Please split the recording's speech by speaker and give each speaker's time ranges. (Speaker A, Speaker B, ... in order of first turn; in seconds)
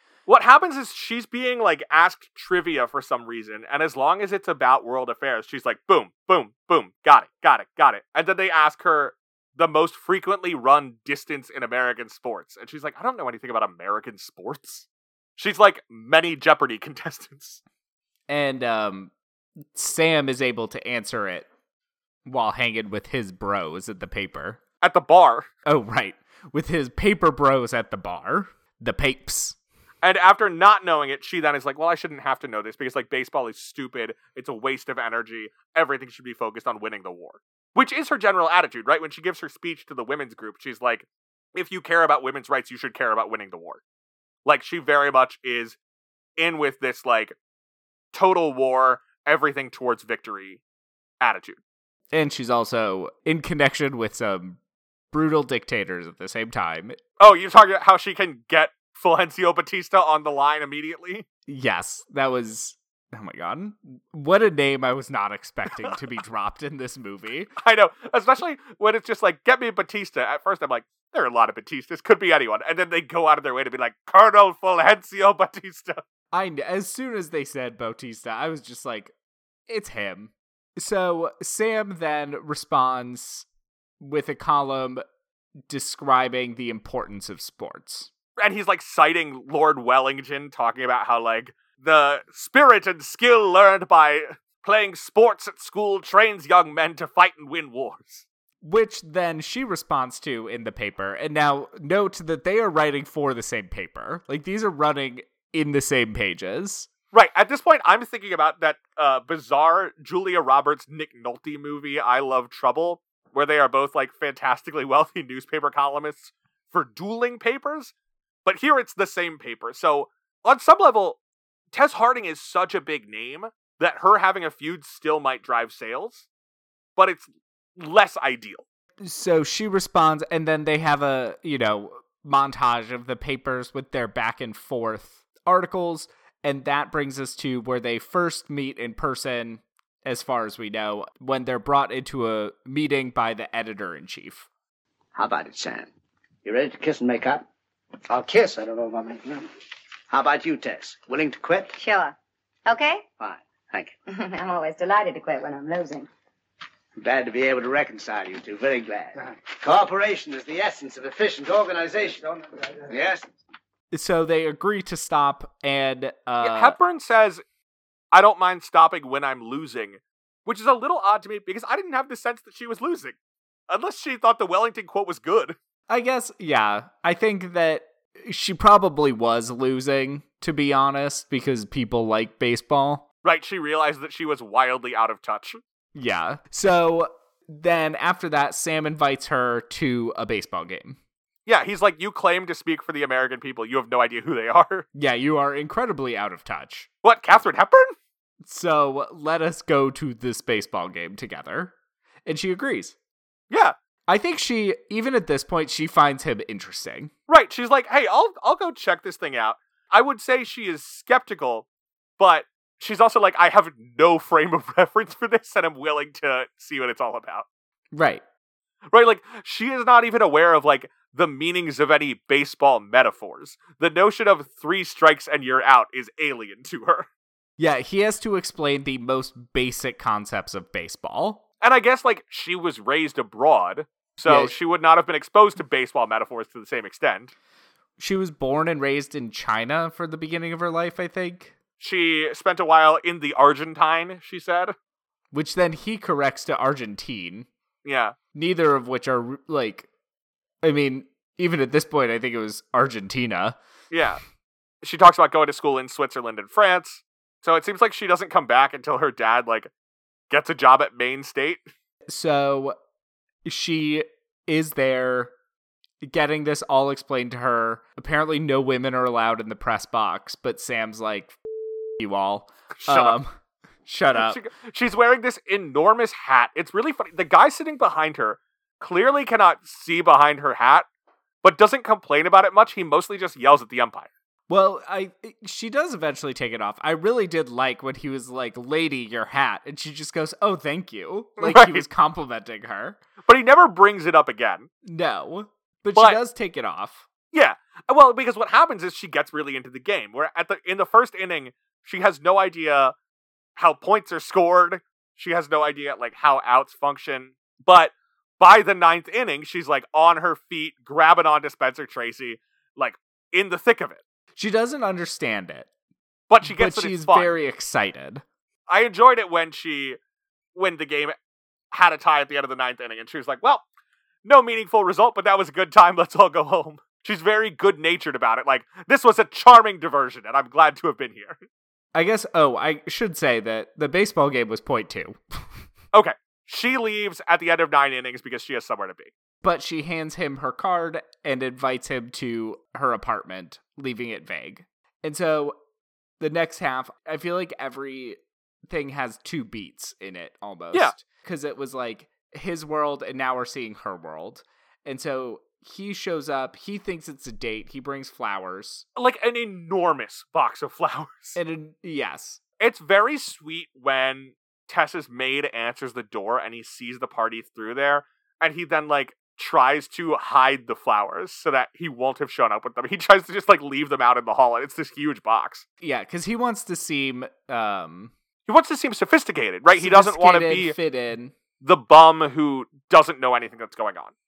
Speaker A: 0.3-17.6, 24.8-25.5, 30.0-43.8, 44.5-45.8, 46.4-47.4, 48.1-50.6, 51.2-51.6, 57.2-61.3, 67.6-76.0, 88.4-98.3, 107.1-117.9, 118.4-121.2, 121.7-126.3, 127.0-128.6, 166.4-167.4, 168.1-173.2, 173.7-175.6, 183.2-185.6, 191.5-194.9, 197.0-197.9, 207.3-211.7, 212.2-217.4, 218.9-227.1, 231.6-237.3, 241.8-244.8, 247.8-248.2, 253.9-254.2, 254.8-259.7, 260.3-261.7, 272.8-273.2, 274.1-280.9, 281.4-284.1, 291.4-291.9, 293.3-294.7, 297.3-302.9, 303.6-314.0, 316.3-317.4, 318.7-320.0, 320.5-321.1, 321.7-323.6, 324.2-331.4, 335.9-339.1, 359.0-361.4, 362.6-375.6, 378.5-380.8, 381.6-384.1
Speaker B: 18.3-19.1, 19.7-21.5, 22.2-24.6, 25.6-29.6, 52.1-54.6, 55.1-57.0, 61.5-67.5, 76.3-79.1, 79.7-83.5, 84.0-85.0, 85.7-88.1, 98.6-106.9, 129.0-144.5, 163.9-166.8, 175.9-183.0, 185.9-191.0, 194.9-196.9, 198.4-201.7, 202.2-203.0, 204.1-207.1, 217.9-218.2, 227.6-231.4, 234.2-234.5, 238.0-241.5, 245.3-247.5, 248.3-249.9, 250.6-253.6, 262.1-262.8, 263.4-265.3, 266.0-271.4, 272.0-273.3, 273.9-274.4, 284.5-293.0, 294.8-297.1, 314.4-315.7, 316.4-318.2, 331.9-335.6, 339.4-345.6, 346.2-358.9, 361.4-362.4, 375.8-378.1, 379.8-381.3
Speaker C: 145.2-145.9, 146.4-147.5, 148.1-149.5, 150.1-151.8, 153.2-153.9, 157.0-163.2
Speaker D: 151.8-152.2, 152.7-153.0, 154.1-156.1